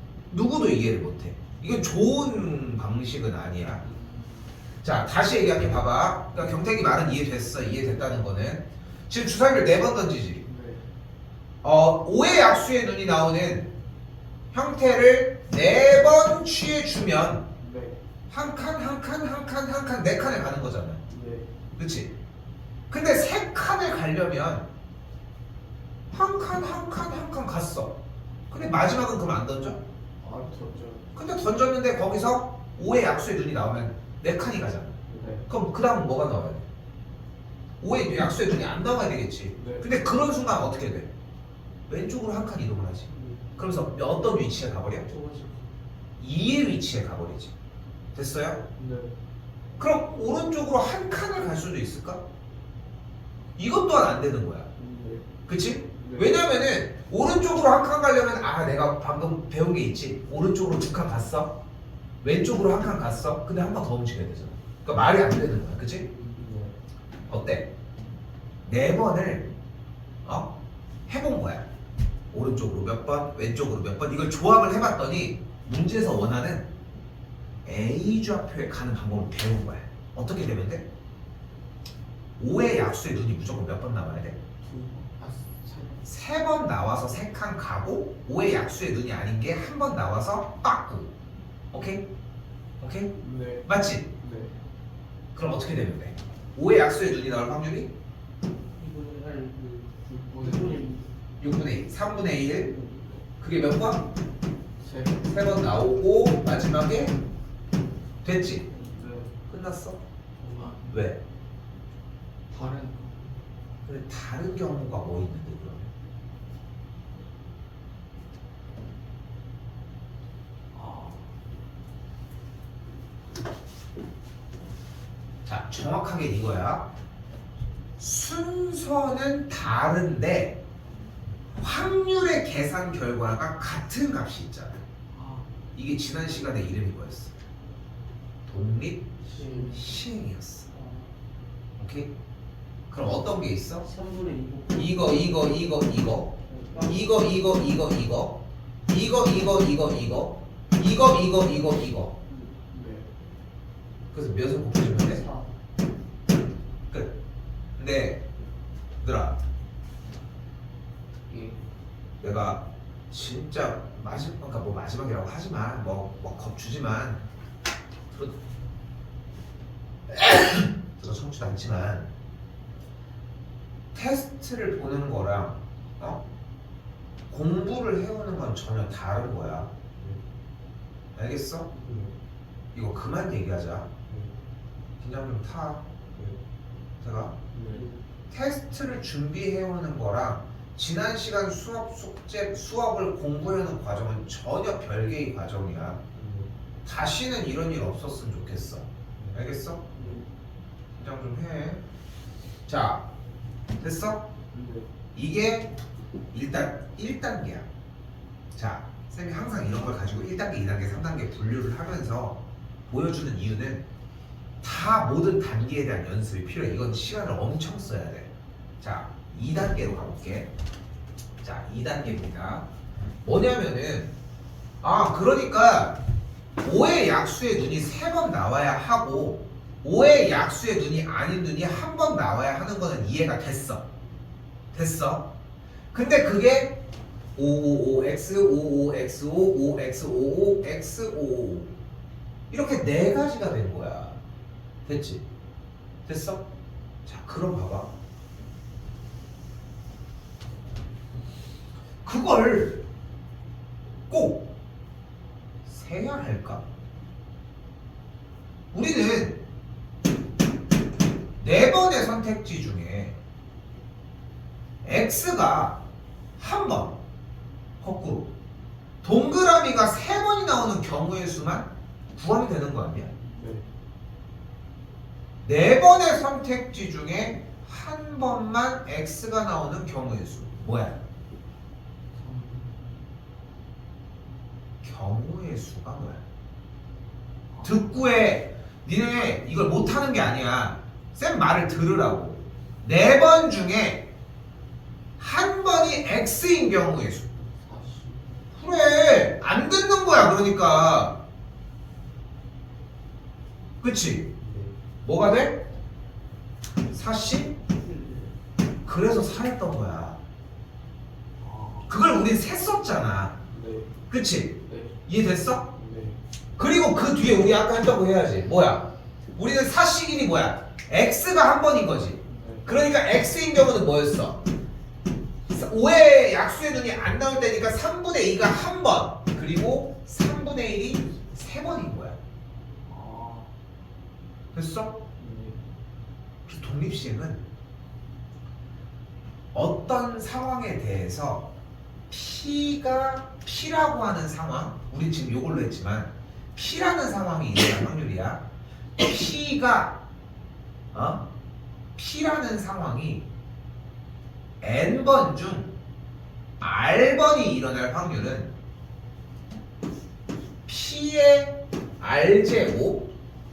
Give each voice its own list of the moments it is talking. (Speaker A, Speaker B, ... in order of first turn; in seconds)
Speaker A: 0.3-3.8, 4.8-10.4, 11.6-13.7, 14.5-17.5, 18.3-21.0, 21.8-22.1, 22.9-24.7, 26.1-27.9, 28.5-29.8, 31.1-35.0, 35.5-36.6, 37.8-41.1, 41.9-45.1, 46.2-47.5, 48.1-48.6, 49.8-52.2, 53.6-54.7, 55.5-61.5, 62.2-66.0, 67.3-67.7, 68.6-69.5, 70.2-70.5, 71.1-71.7, 72.3-76.7, 77.6-80.8, 82.4-84.4, 86.0-91.1, 91.7-92.0, 92.8-93.1, 93.7-94.1, 95.3-97.9, 101.4-102.7, 103.4-104.1, 105.3-107.1, 108.2-108.7, 109.5-110.0, 110.9-111.2, 113.8-115.9, 125.4-126.9, 128.0-130.6, 131.6-134.8, 135.8-137.3, 138.5-139.1, 139.7-140.7, 141.8-142.1, 142.9-143.8, 144.7-152.1, 154.1-155.2, 157.8-158.2, 159.0-159.4, 162.2-167.2, 170.1-172.1, 173.9-176.2, 177.3-179.7, 181.1-181.7, 182.7-183.9, 185.0-185.8, 187.0-187.3, 188.3-196.0, 196.8-199.9, 200.9-201.8, 202.7-203.0, 203.8-204.2, 205.1-205.7, 206.3-207.7, 208.5-213.8, 214.6-220.5, 221.4-222.7, 223.2-224.1, 224.8-226.0, 226.6-233.8, 234.7-235.3, 235.9-236.8, 237.3-241.7, 242.5-244.2, 244.8-245.2, 246.1-246.4, 247.0-247.9, 252.0-252.8, 254.1-254.5, 255.6-256.6, 258.7-259.4, 261.4-263.1, 264.8-265.8, 266.4-267.0, 267.8-268.3, 269.0-273.1, 275.4-281.0, 284.8-286.2, 287.6-294.0, 295.2-297.3, 298.6-301.2, 303.8-304.3, 305.0-305.6, 306.9-307.6, 308.8-310.2, 311.9-313.4, 314.1-315.6, 316.6-324.4, 325.5-332.2, 334.5-335.0, 336.4-337.5, 339.5-341.5, 342.1-348.4, 349.0-350.0, 350.9-351.2, 351.9-353.3, 354.6-355.7, 356.6-358.5, 360.6-363.1
Speaker B: 3.8-4.5, 10.4-10.8, 17.6-18.0, 21.1-21.5, 30.2-31.1, 35.1-35.5, 39.5-39.9, 48.8-49.1, 54.7-56.3, 66.0-66.7, 84.6-86.0, 93.2-94.5, 100.0-100.9, 104.8-105.3, 108.7-109.3, 110.4-111.0, 112.5-113.4, 120.7-121.3, 135.1-135.5, 139.3-139.8, 152.7-153.1, 161.3-161.6, 181.8-182.1, 184.1-184.3, 187.5-187.9, 196.1-196.5, 199.9-200.2, 204.5-204.9, 273.2-273.6, 282.1-283.1, 287.5-287.9, 297.5-298.6, 304.4-304.7, 311.4-311.9, 313.5-313.9, 314.6-315.0, 315.7-316.2, 322.2-322.7, 332.9-333.5, 335.2-335.6
Speaker C: 43.1-43.6, 45.1-45.8, 98.8-101.1, 102.3-103.1, 139.3-139.9, 140.7-141.1, 143.8-145.2, 146.5-147.0, 152.3-152.6, 154.9-155.5, 181.7-182.0, 187.7-188.0, 307.8-308.3